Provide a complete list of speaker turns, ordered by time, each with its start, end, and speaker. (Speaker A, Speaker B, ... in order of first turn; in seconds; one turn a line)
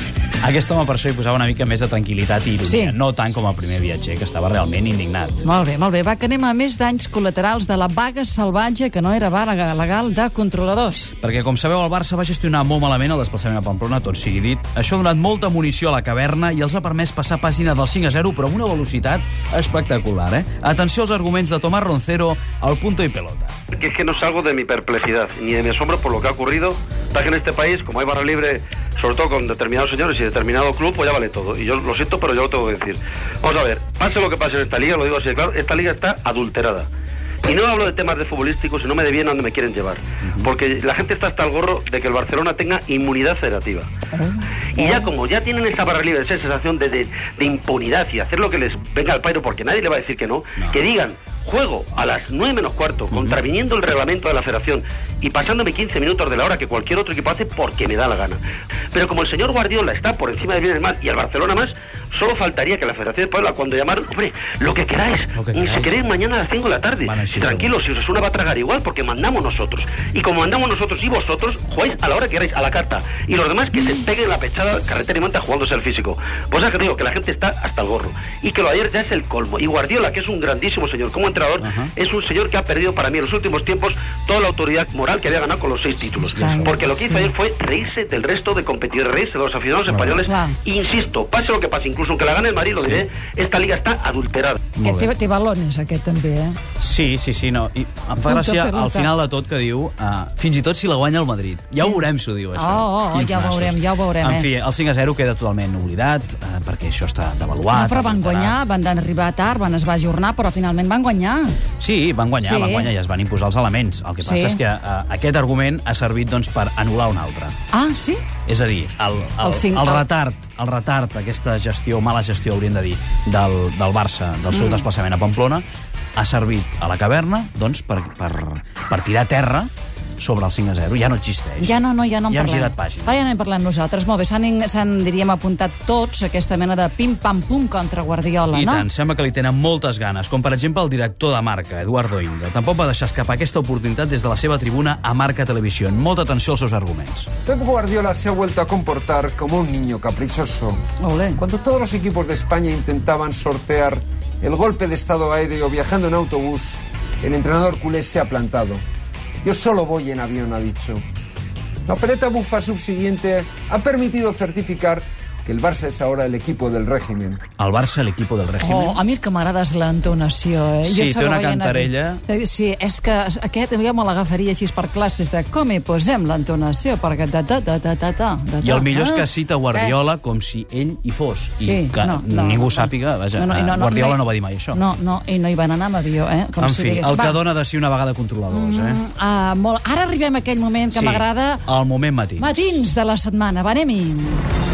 Speaker A: 0.4-5.4
Speaker B: 2.6-3.0
Speaker B: 5.4-11.2
Speaker A: 11.2-23.6
Speaker C: 23.8-36.9
Speaker C: 37.5-43.9
Speaker A: 40.2-40.5
Speaker B: 44.2-45.0
Speaker C: 44.8-58.4
Speaker A: 50.6-50.9
Speaker C: 58.9-94.6
Speaker A: 65.3-66.1
Speaker A: 67.0-67.8
Speaker A: 81.6-81.9
Speaker B: 86.0-87.3
Speaker A: 86.2-87.0
Speaker A: 89.9-90.2
Speaker B: 90.2-90.6
Speaker A: 92.8-93.0
Speaker A: 94.7-95.1
Speaker B: 94.8-96.6
Speaker A: 96.8-108.6
Speaker B: 98.3-99.1
Speaker B: 102.6-104.5
Speaker B: 107.7-111.6
Speaker A: 111.8-117.6
Speaker B: 112.4-112.9
Speaker B: 114.2-114.6
Speaker B: 117.7-118.3
Speaker A: 118.5-125.6
Speaker B: 119.4-120.0
Speaker B: 124.5-124.9
Speaker A: 126.2-131.7
Speaker B: 131.6-138.9
Speaker A: 132.3-133.2
Speaker A: 138.5-147.3
Speaker D: 147.5-150.8
Speaker B: 151.0-151.4
Speaker D: 151.4-158.8
Speaker D: 159.4-161.0
Speaker D: 161.9-167.4
Speaker A: 167.6-169.0
Speaker B: 168.6-179.9
Speaker A: 170.8-172.2
Speaker A: 178.6-184.8
Speaker B: 181.6-187.4
Speaker A: 186.6-189.0
Speaker B: 188.5-191.7
Speaker A: 190.9-192.8
Speaker B: 192.4-194.4